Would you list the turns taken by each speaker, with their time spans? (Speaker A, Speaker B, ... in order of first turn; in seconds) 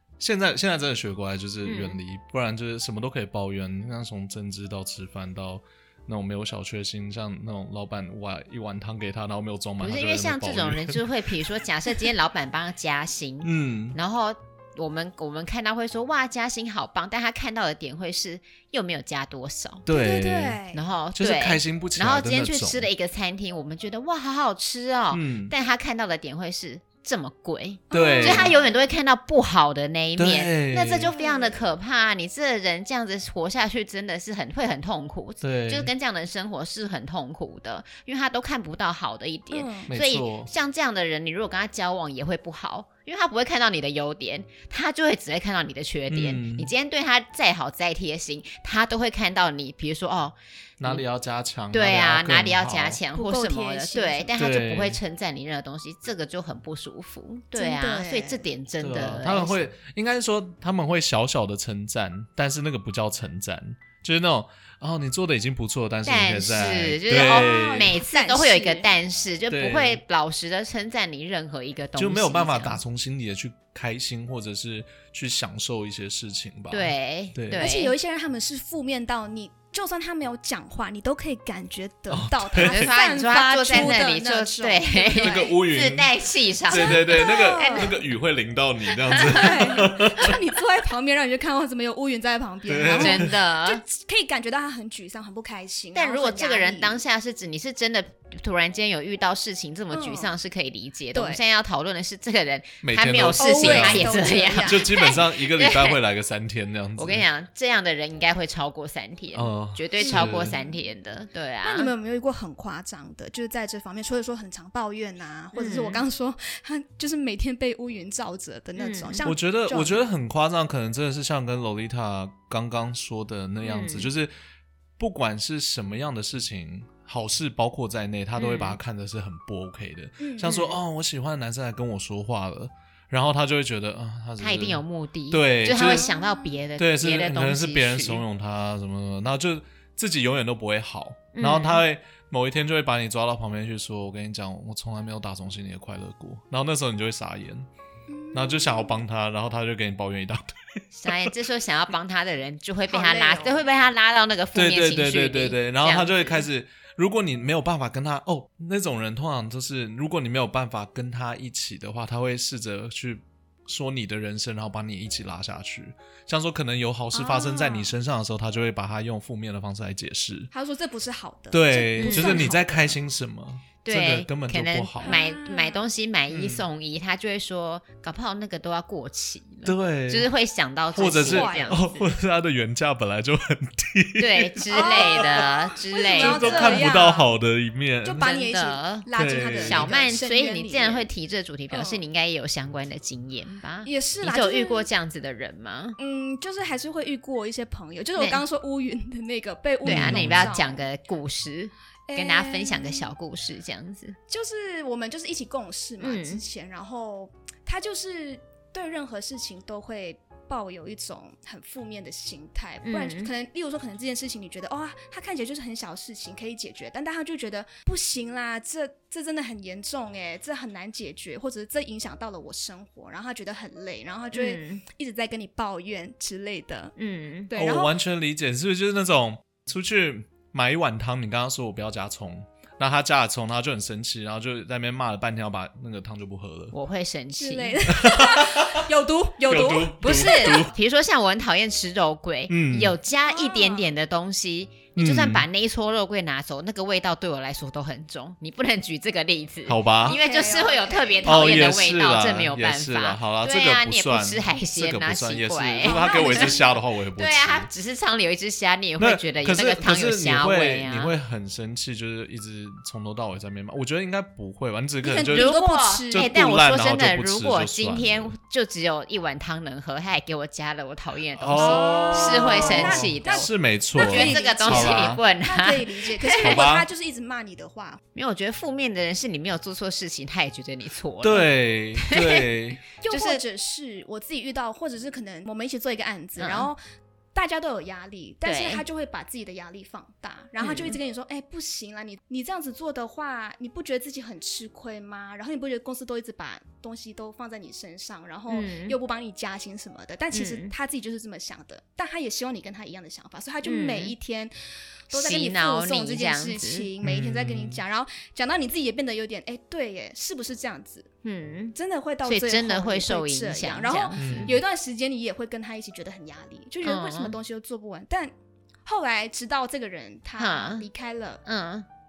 Speaker A: 0.2-11.0, 13.4-14.0, 19.9-20.6, 21.1-22.9, 25.1-25.5, 27.9-28.5, 30.2-31.1, 35.4-35.9, 39.9-40.5, 46.1-46.7, 50.8-53.0, 54.4-55.0, 58.8-68.0, 69.5-70.0, 72.0-77.7, 82.1-82.9, 85.2-86.1, 86.7-90.4, 92.7-93.3, 102.8-107.3, 109.3-110.5, 119.2-124.3, 125.0-136.1, 136.8-147.7, 148.3-151.3, 154.5-170.5, 171.5-175.2, 176.3-176.7, 179.7-180.3, 180.9-185.5, 186.1-188.3, 189.2-189.9, 199.8-200.5, 227.5-236.7, 237.9-238.8, 239.5-240.7, 242.5-242.9, 245.0-245.5, 249.7-250.2, 251.2-257.7, 259.0-265.6, 266.1-268.3, 271.4-275.2, 276.4-276.9, 281.2-282.8, 307.0-307.8, 314.2-314.6
Speaker B: 1.6-2.0, 9.8-19.8, 20.7-51.0, 51.7-59.6, 66.0-72.8, 76.7-77.9, 82.6-87.9, 89.1-89.4, 92.9-93.8, 96.0-106.0, 107.0-111.9, 115.5-116.0, 118.8-119.2, 123.6-124.1, 128.4-128.8, 130.4-130.8, 134.4-138.2, 141.3-141.8, 150.9-156.4, 172.0-172.6, 173.8-182.1, 184.2-187.0, 188.2-189.1, 189.6-196.0, 198.2-198.4, 199.8-204.2, 206.0-206.4, 212.8-213.3, 224.3-224.8, 227.0-227.5, 236.7-237.8, 240.0-256.6, 257.2-261.1, 265.3-276.6, 278.1-282.5, 283.1-283.4, 286.4-286.7, 288.4-288.8, 290.6-291.0, 298.5-299.0, 300.3-300.7, 303.6-304.1, 305.1-306.9, 311.2-314.5, 316.8-317.4, 320.4-320.9, 321.4-321.9
Speaker C: 19.9-20.8, 27.9-28.6, 31.0-31.6, 39.5-39.9, 53.1-54.3, 57.5-58.5, 67.2-68.9, 77.6-85.5, 86.7-88.0, 89.2-97.0, 99.9-100.3, 101.1-101.4, 103.4-105.1, 110.0-110.7, 111.6-120.0, 130.2-130.5, 135.8-136.6, 148.1-149.0, 152.9-153.6, 167.1-167.9, 170.5-173.0, 175.0-175.8, 181.0-181.8, 184.7-187.3, 188.0-191.1, 191.7-192.0, 193.8-194.9, 196.0-200.9, 202.1-203.1, 204.3-226.9, 227.5-227.9, 237.4-240.7, 243.2-243.9, 250.1-251.6, 255.8-256.8, 265.0-266.3, 271.6-278.0, 283.0-286.8, 287.4-304.5, 305.1-311.1, 311.8-318.3, 318.9-321.4